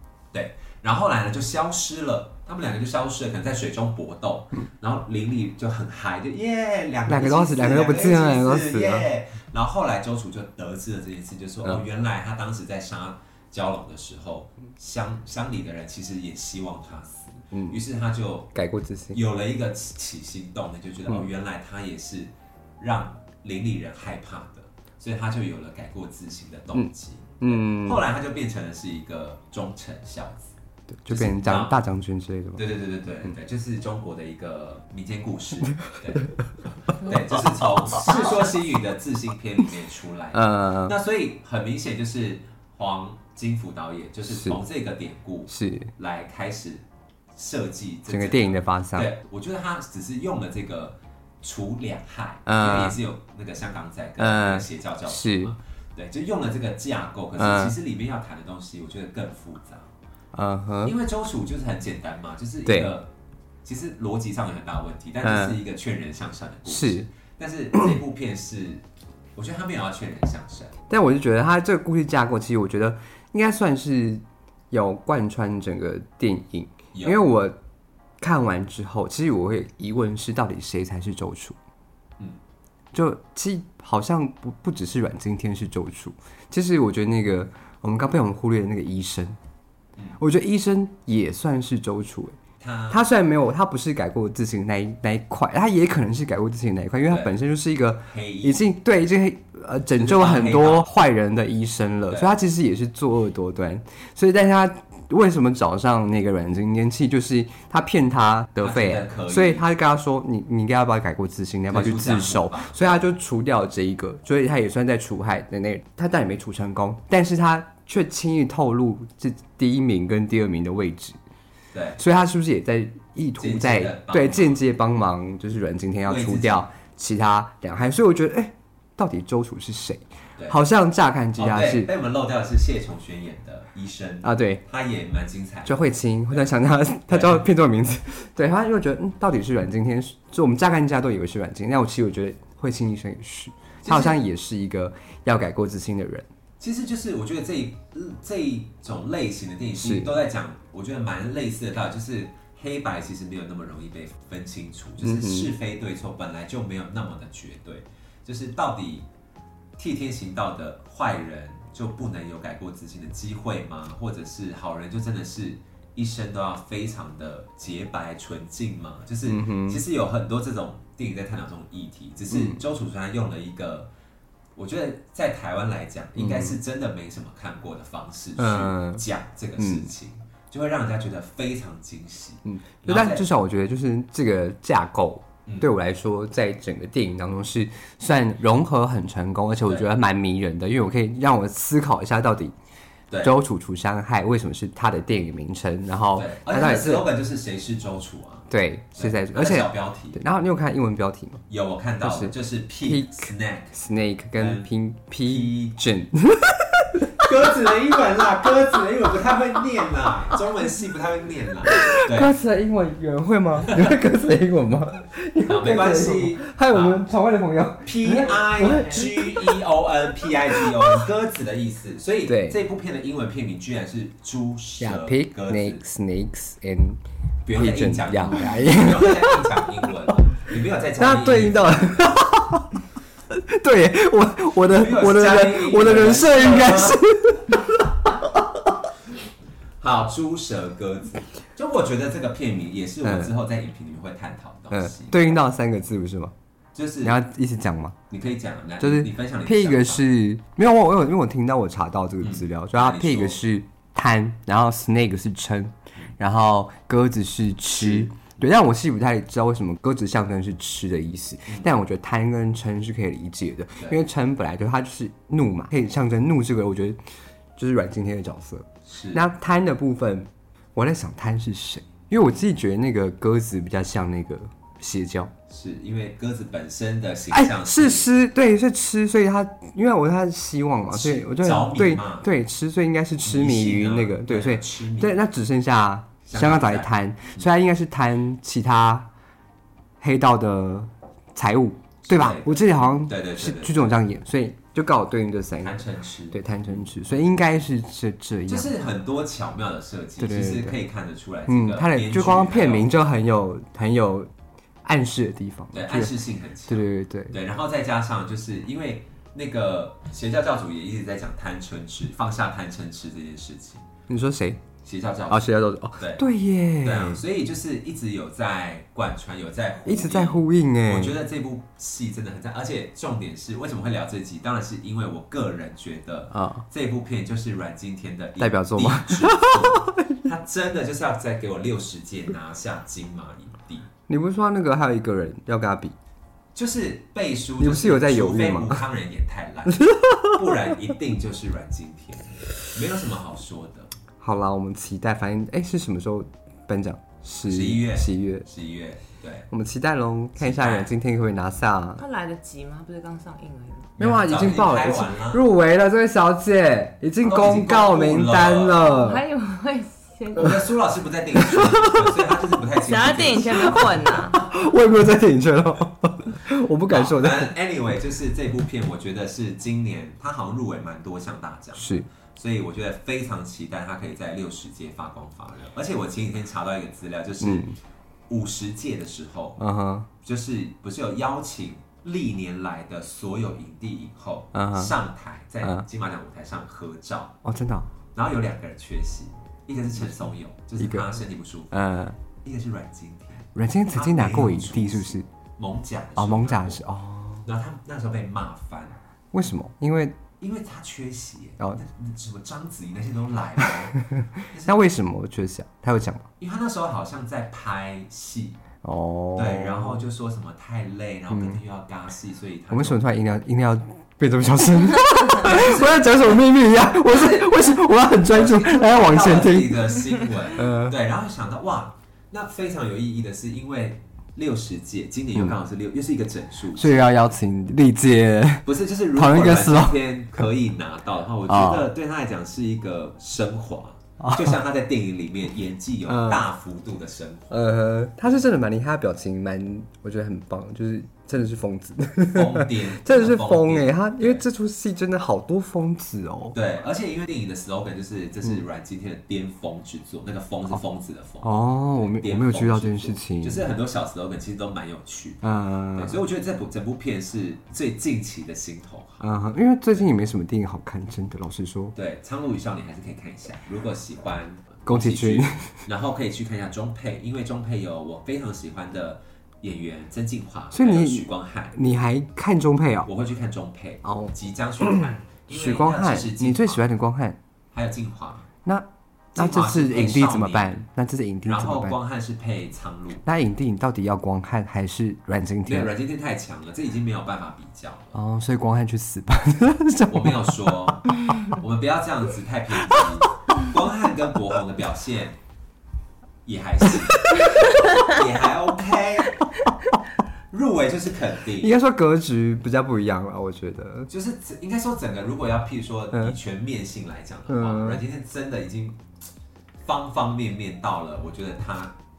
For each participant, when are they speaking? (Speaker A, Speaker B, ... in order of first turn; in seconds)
Speaker A: 0.3-18.5, 19.1-30.6, 31.1-31.8, 32.6-36.4, 36.9-59.9, 60.8-63.1, 63.6-68.8, 69.4-70.7, 76.9-77.3, 92.6-93.1, 97.1-97.4, 98.1-98.7, 100.0-100.9, 102.1-102.4, 108.6-109.6, 111.7-113.0, 121.7-122.0, 123.4-124.6, 126.0-126.7, 131.4-136.5, 137.1-137.5, 143.8-144.2, 146.6-159.1, 159.8-173.9, 174.6-183.2, 193.1-193.4, 196.1-200.2, 201.5-203.8, 204.4-204.7, 205.2-205.8, 207.2-212.4, 213.7-213.9, 215.5-217.0, 217.8-225.8, 227.4-232.1, 234.7-237.0, 239.8-245.4, 246.8-247.2, 248.1-250.1, 252.2-253.4, 257.8-258.1, 268.9-269.2, 275.5-278.1, 280.9-282.3, 283.2-285.2, 286.3-287.4, 292.0-293.9, 295.6-297.3, 298.5-302.9, 305.7-313.9, 314.8-316.2, 316.8-333.9, 336.5-343.9, 347.4-349.5, 350.4-350.9, 354.0-355.4, 357.2-358.9, 360.4-364.3, 366.9-377.7, 378.3-379.6, 380.2-387.4, 388.1-391.8, 392.4-396.8, 397.4-399.0, 400.4-404.8, 406.4-408.6, 409.4-413.0, 415.4-416.4, 417.1-417.6, 418.3-427.0, 428.6-437.6, 442.3-444.4, 446.5-459.3, 461.9-471.8, 473.1-476.8, 477.7-478.5, 479.4-480.8, 481.5-483.2, 485.7-488.2, 490.1-495.4, 496.4-499.4, 500.5-501.7, 504.1-509.0, 509.8-512.0
Speaker B: 7.1-9.1, 17.5-17.8, 18.6-19.2, 27.4-28.0, 31.0-32.6, 40.3-41.0, 44.3-44.6, 45.5-45.9, 48.1-49.1, 52.5-53.0, 54.2-55.5, 57.4-57.7, 60.3-61.0, 62.7-62.9, 65.2-65.6, 66.7-67.1, 70.9-77.6, 78.2-81.6, 82.9-89.4, 90.2-92.4, 92.9-121.2, 122.0-131.9, 134.2-134.6, 135.7-146.3, 149.8-150.1, 155.0-155.5, 169.3-169.8, 172.3-172.6, 176.2-176.6, 178.4-179.1, 179.6-179.9, 182.5-192.5, 193.2-197.1, 198.5-201.4, 202.0-207.1, 211.8-219.6, 220.5-221.1, 222.3-222.6, 224.8-227.0, 227.6-229.6, 231.0-232.8, 233.3-238.7, 243.0-243.3, 244.7-246.3, 247.0-248.0, 248.8-267.0, 267.6-275.3, 277.3-289.1, 290.0-295.8, 296.3-298.7, 300.2-300.8, 301.5-304.3, 304.8-307.3, 314.1-314.6, 315.3-317.2, 319.9-321.2, 326.3-326.6, 328.4-330.2, 334.1-336.0, 337.6-338.8, 339.8-340.3, 344.2-348.5, 349.5-352.0, 354.0-359.2, 361.4-362.0, 364.3-367.5, 371.8-372.1, 377.4-377.8, 379.6-380.1, 384.5-385.0, 387.4-387.9, 390.1-391.2, 391.7-392.2, 393.6-395.3, 396.2-397.4, 399.3-400.2, 404.0-406.3, 408.8-410.0, 411.3-411.6, 412.7-421.0, 426.8-430.4, 431.5-431.9, 434.2-434.5, 436.1-436.4, 437.5-446.6, 451.4-453.6, 455.4-456.2, 459.2-461.9, 464.9-465.8, 470.7-473.1, 474.0-477.4, 478.6-482.0, 483.2-485.9, 488.1-490.8, 496.9-497.7, 501.6-504.1, 507.5-508.0
Speaker C: 352.0-353.9, 358.8-360.6, 362.9-364.4